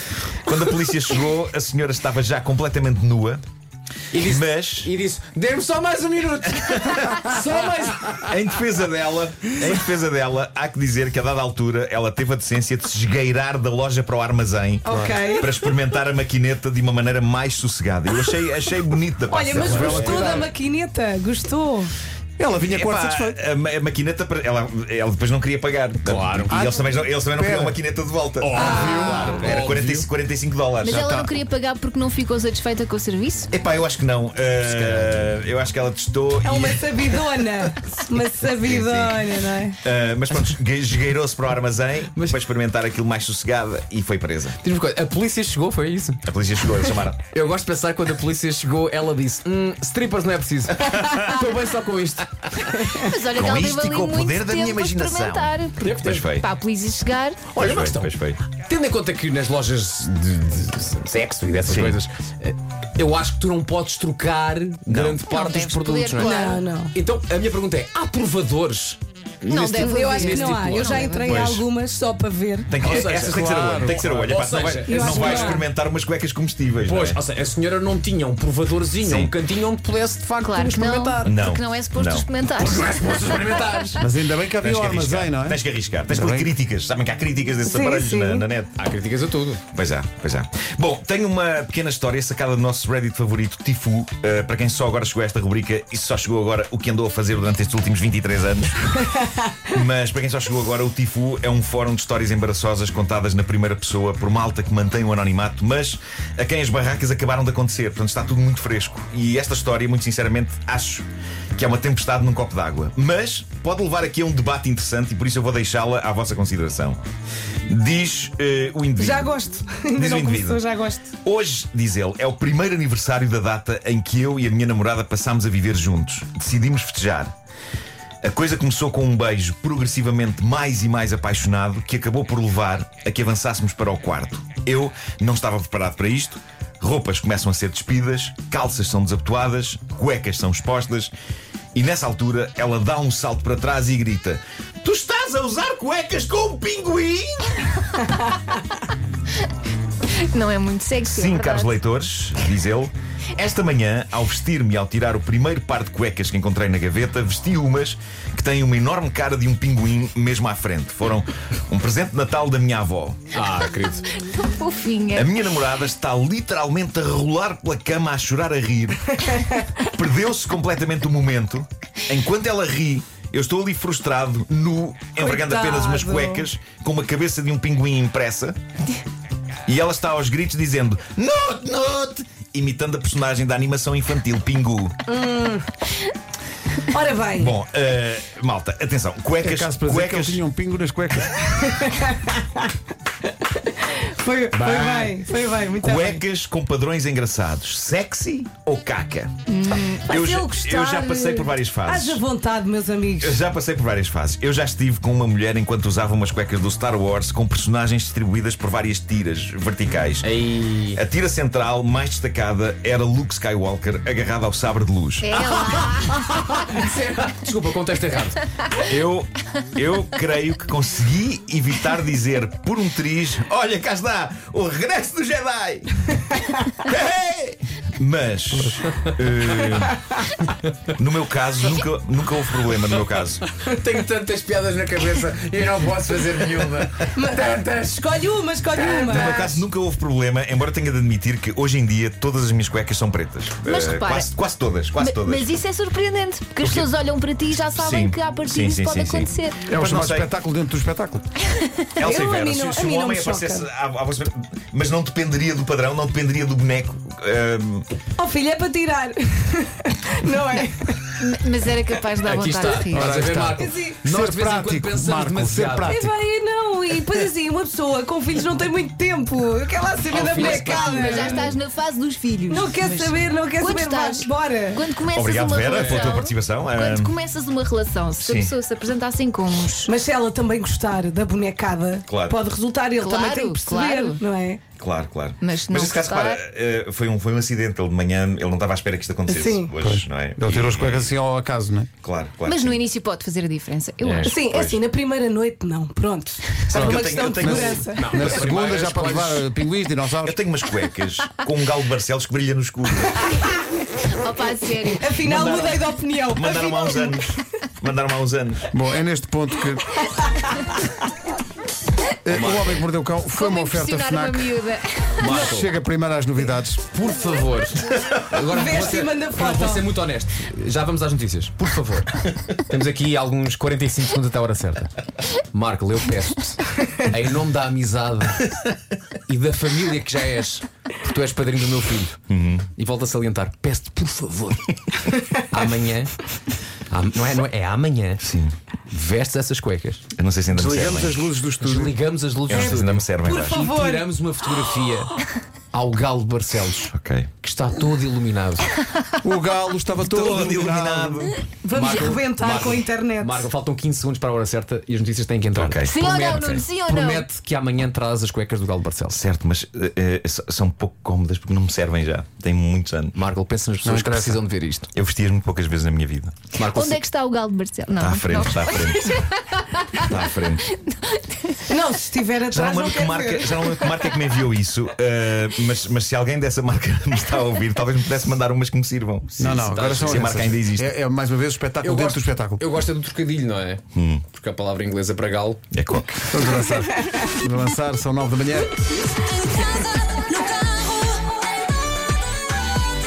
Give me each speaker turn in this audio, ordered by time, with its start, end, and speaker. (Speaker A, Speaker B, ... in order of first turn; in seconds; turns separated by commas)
Speaker A: 0.4-3.4, Speaker B: 4.1-8.4, Speaker A: 4.2-4.9, Speaker A: 6.7-7.3, Speaker A: 8.3-20.4, Speaker C: 14.8-15.7, Speaker D: 14.9-15.2, Speaker C: 19.3-21.9, Speaker D: 19.5-20.5, Speaker B: 19.6-20.1, Speaker D: 22.4-23.4, Speaker A: 22.6-31.0, Speaker B: 26.1-26.7, Speaker D: 26.5-27.8, Speaker B: 28.4-29.9, Speaker D: 28.5-30.1, Speaker C: 28.6-29.4, Speaker E: 30.8-33.5, Speaker D: 30.9-31.3, Speaker A: 33.5-37.2, Speaker B: 34.6-35.3, Speaker C: 36.4-39.8, Speaker A: 38.6-39.2, Speaker A: 39.8-44.6, Speaker B: 44.6-53.1, Speaker A: 46.2-47.3, Speaker E: 53.0-57.5, Speaker A: 53.3-56.5, Speaker B: 55.8-56.3, Speaker B: 57.5-71.1, Speaker A: 57.6-58.4, Speaker A: 61.6-62.0, Speaker A: 64.9-65.2, Speaker E: 65.2-66.7, Speaker C: 66.2-66.9, Speaker E: 69.5-71.5, Speaker C: 69.8-72.7, Speaker A: 71.2-71.7, Speaker A: 72.7-77.2, Speaker B: 72.7-75.7, Speaker D: 72.9-74.1, Speaker C: 74.9-75.7, Speaker B: 76.8-81.3, Speaker A: 79.0-79.3, Speaker E: 80.4-83.6, Speaker A: 81.2-82.3, Speaker B: 82.5-84.1, Speaker D: 84.0-86.5, Speaker A: 84.6-88.8, Speaker C: 87.7-88.5, Speaker B: 88.8-89.6, Speaker A: 89.7-117.0, Speaker A: 117.7-119.3, Speaker C: 119.0-121.1, Speaker A: 120.0-120.6, Speaker A: 121.2-127.3, Speaker A: 128.2-141.1, Speaker A: 141.7-147.7, Speaker E: 150.2-151.8, Speaker A: 151.1-163.2, Speaker B: 163.3-164.1, Speaker E: 164.2-165.3, Speaker A: 165.1-178.6, Speaker C: 175.2-176.4, Speaker A: 179.7-185.0, Speaker C: 185.1-185.7, Speaker C: 186.9-187.5, Speaker A: 187.4-190.4, Speaker D: 189.4-191.4, Speaker C: 191.6-192.7, Speaker C: 193.2-196.2, Speaker B: 194.5-195.2, Speaker A: 195.8-199.3, Speaker E: 199.5-200.1, Speaker A: 200.1-202.2, Speaker C: 200.1-203.4, Speaker A: 203.2-210.3, Speaker B: 210.2-211.0, Speaker A: 210.9-215.5, Speaker E: 215.2-216.3, Speaker B: 215.7-218.4, Speaker A: 218.8-226.2, Speaker A: 226.8-230.0, Speaker A: 231.0-233.5, Speaker B: 232.8-238.1, Speaker C: 237.1-239.6, Speaker B: 238.7-239.5, Speaker A: 239.1-245.5, Speaker E: 243.7-244.3, Speaker E: 245.0-249.7, Speaker A: 246.6-246.9, Speaker A: 247.7-250.3, Speaker D: 249.7-251.3, Speaker E: 251.6-251.9, Speaker A: 252.0-257.9, Speaker C: 252.0-253.7, Speaker C: 258.2-261.1, Speaker E: 261.2-263.2, Speaker B: 262.2-266.0, Speaker D: 262.9-266.1, Speaker C: 263.5-264.0, Speaker C: 265.8-271.6, Speaker B: 270.1-271.4, Speaker A: 270.1-270.5, Speaker E: 270.4-279.9, Speaker C: 272.5-274.9, Speaker A: 275.1-277.1, Speaker B: 275.7-276.2, Speaker A: 278.2-278.5, Speaker C: 279.9-284.6, Speaker A: 282.1-282.4, Speaker E: 282.9-284.2, Speaker A: 284.8-291.1, Speaker E: 285.4-286.4, Speaker C: 289.3-289.7, Speaker D: 289.8-291.9, Speaker A: 292.0-292.9, Speaker E: 292.5-294.3, Speaker B: 294.0-294.4, Speaker C: 294.2-298.4, Speaker A: 294.3-294.8, Speaker A: 296.6-297.9, Speaker D: 296.7-300.4, Speaker B: 297.9-299.5, Speaker A: 300.2-303.5, Speaker E: 304.0-305.5, Speaker C: 305.0-307.2, Speaker A: 305.2-308.7, Speaker D: 308.7-310.1, Speaker D: 312.2-314.5, Speaker B: 312.3-312.8, Speaker E: 313.3-315.6, Speaker D: 315.2-316.8, Speaker B: 315.2-315.7, Speaker B: 316.9-328.5, Speaker C: 318.5-319.9, Speaker B: 329.3-332.2, Speaker A: 332.3-332.7, Speaker B: 332.8-336.2, Speaker B: 336.9-338.2, Speaker A: 338.2-338.5, Speaker B: 338.9-340.1, Speaker A: 340.1-341.3, Speaker D: 340.5-342.0, Speaker B: 341.6-345.2, Speaker A: 342.5-343.6, Speaker C: 342.5-344.1, Speaker B: 345.7-348.7, Speaker A: 346.9-347.3, Speaker D: 349.2-351.4, Speaker A: 350.0-351.4, Speaker C: 351.6-353.5, Speaker B: 351.7-359.2, Speaker A: 355.6-355.9, Speaker E: 355.8-357.3, Speaker A: 359.1-363.2, Speaker B: 363.1-364.9, Speaker D: 363.8-364.4, Speaker A: 364.9-366.4, Speaker B: 366.6-367.0, Speaker E: 366.7-371.6, Speaker A: 368.0-369.2, Speaker A: 370.0-370.7, Speaker C: 371.7-373.9, Speaker A: 372.5-380.9, Speaker D: 379.4-382.6, Speaker B: 379.6-380.3, Speaker B: 381.8-385.6, Speaker A: 383.9-384.2, Speaker A: 385.7-386.5, Speaker D: 386.3-388.7